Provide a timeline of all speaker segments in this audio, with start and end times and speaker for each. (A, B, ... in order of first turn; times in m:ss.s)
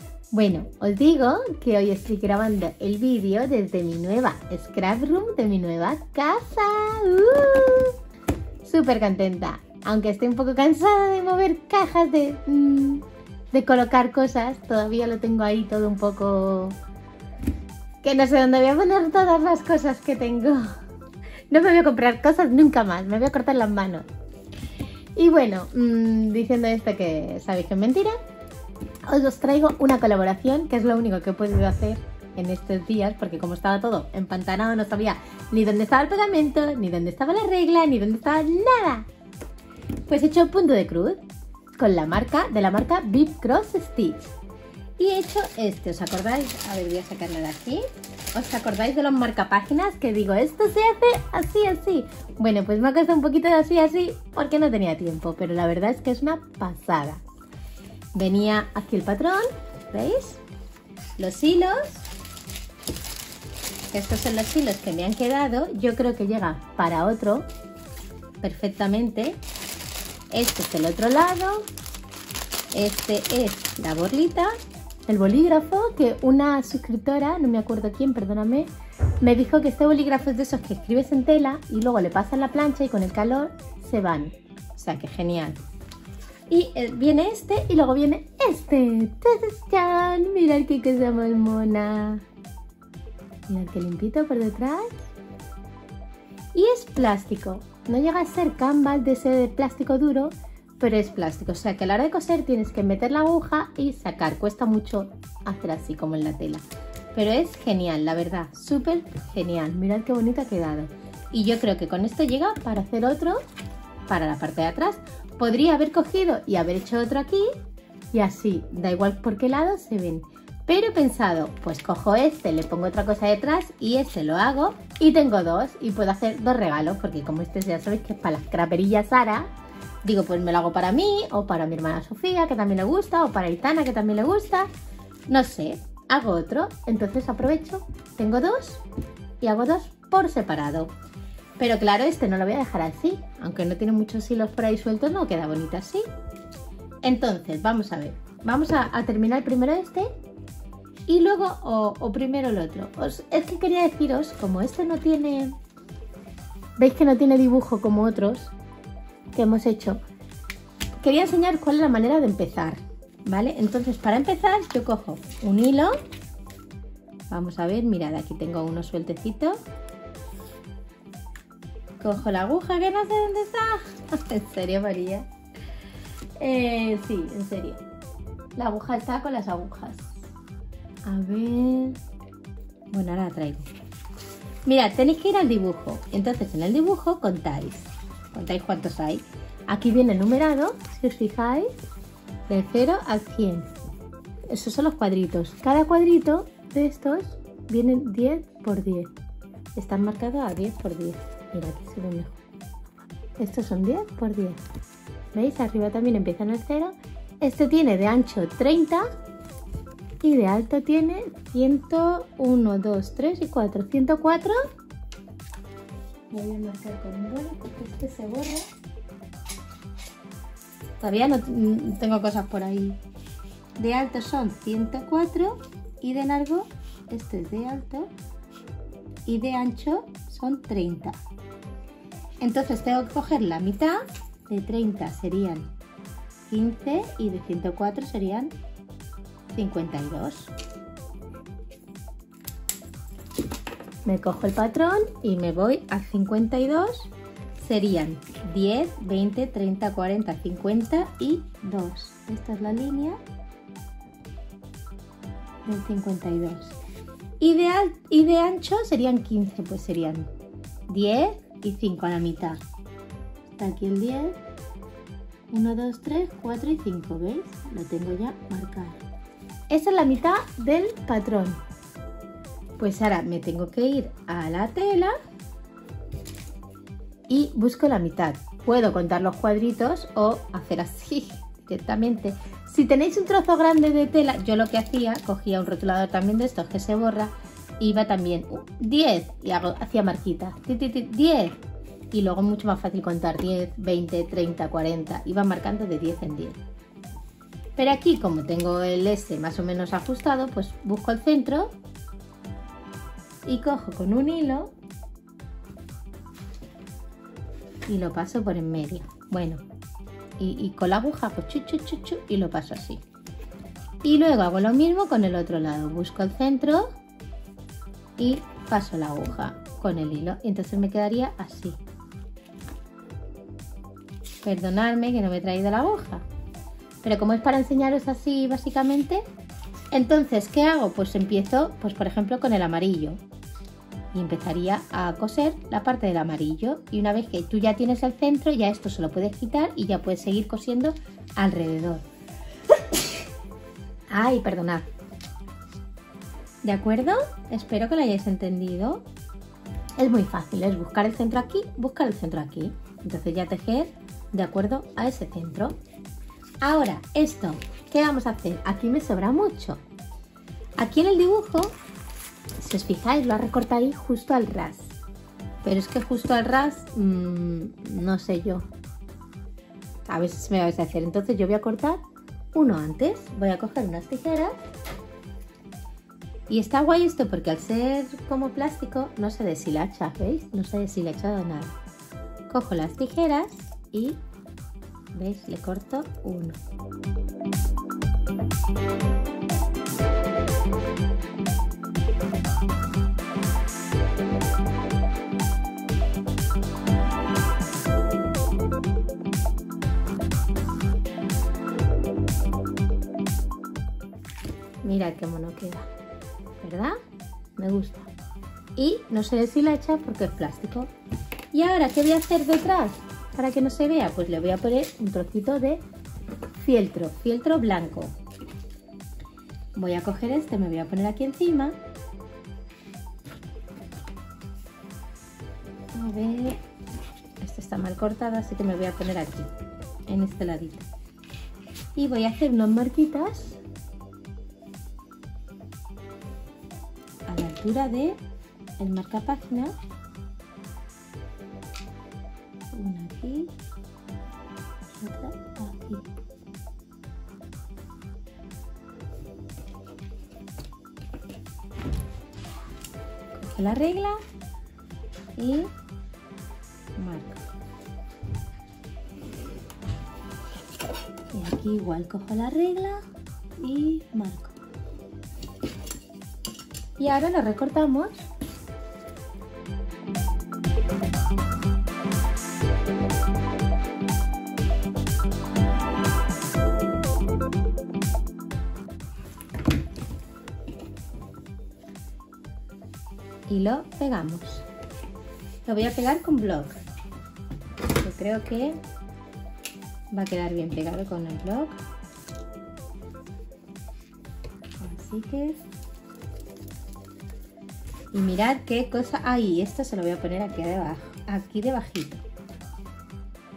0:00.3-0:08.0 A
0:08.6-0:16.8 A
0:18.0-0:20.7 A
0:21.5-0:24.1 A
0:25.2-0:28.2 A
0:29.0-0:39.1 A
0:40.1-0:41.2 A
0:41.8-0:44.3 A
0:45.0-0:57.2 A
0:58.1-1:00.4 A
1:01.2-1:02.1 A
1:03.9-1:07.5 A
1:08.4-1:09.4 A
1:10.3-1:11.7 A
1:12.7-1:14.5 A
1:15.1-1:25.6 A
1:26.5-1:32.2 A
1:33.5-1:35.1 A
1:36.5-1:53.4 A
1:54.1-1:57.5 A
1:58.1-2:09.5 A
2:10.0-2:14.7 A
2:15.3-2:18.8 A
2:19.4-2:20.9 A
2:21.6-2:26.1 A
2:27.0-2:30.1 A
2:31.1-2:35.6 A
2:36.8-2:38.5 A
2:39.3-2:40.0 A
2:41.0-2:46.0 A
2:47.3-2:49.6 A
2:52.0-2:55.3 A
2:56.4-2:57.8 A
2:58.6-3:00.2 A
3:01.1-3:02.0 A
3:02.9-3:03.7 A
3:04.7-3:11.7 A
3:12.5-3:13.7 A
3:14.5-3:19.1 A
3:19.8-3:22.4 A
3:23.4-3:24.6 A
3:25.3-3:29.1 A
3:30.2-3:34.6 A
3:36.3-3:38.7 A
3:41.0-3:43.0 A
3:43.8-3:48.1 A
3:49.3-3:51.2 A
3:52.4-3:55.7 A
3:56.5-3:58.6 A
3:59.5-4:00.5 A
4:04.0-4:13.2 A
4:15.6-4:16.8 A
4:17.4-4:20.3 A
4:20.9-4:22.6 A
4:23.5-4:24.4 A
4:25.5-4:29.0 A
4:29.7-4:31.6 A
4:32.8-4:35.1 A
4:37.3-4:51.6 A
4:52.1-4:56.6 A
4:57.8-5:01.8 A
5:03.5-5:04.7 A
5:07.9-5:09.6 A
5:10.4-5:13.0 A
5:14.0-5:16.9 A
5:18.2-5:21.8 A
5:24.4-5:26.2 A
5:27.0-5:29.3 A
5:29.9-5:33.2 A
5:34.1-5:42.1 A
5:44.1-5:44.9 A
5:46.6-5:49.1 A
5:50.0-5:55.8 A
5:56.6-5:59.8 A
6:00.8-6:01.7 A
6:02.6-6:05.0 A
6:05.6-6:08.7 A
6:10.1-6:12.0 A
6:12.5-6:14.6 A
6:16.5-6:21.8 A
6:22.5-6:24.2 A
6:25.1-6:26.6 A
6:44.8-6:45.9 A
6:46.6-6:47.0 A
6:47.6-6:48.1 A
6:48.8-6:50.9 A
6:51.5-6:55.8 A
6:56.6-6:58.1 A
6:59.8-7:01.8 A
7:06.0-7:06.6 A
7:07.4-7:09.5 A
7:10.1-7:10.9 A
7:12.0-7:13.6 A
7:17.3-7:18.2 A
7:18.8-7:19.8 A
7:22.7-7:23.6 A
7:24.9-7:26.1 A
7:33.3-7:34.2 A
7:35.4-7:35.7 A
7:37.0-7:37.4 A
7:41.3-7:43.0 A
7:43.6-7:44.6 A
7:47.0-7:48.3 A
8:03.5-8:04.7 A
8:05.6-8:06.8 A
8:07.9-8:08.8 A
8:10.1-8:11.8 A
8:14.8-8:15.7 A
8:18.1-8:22.2 A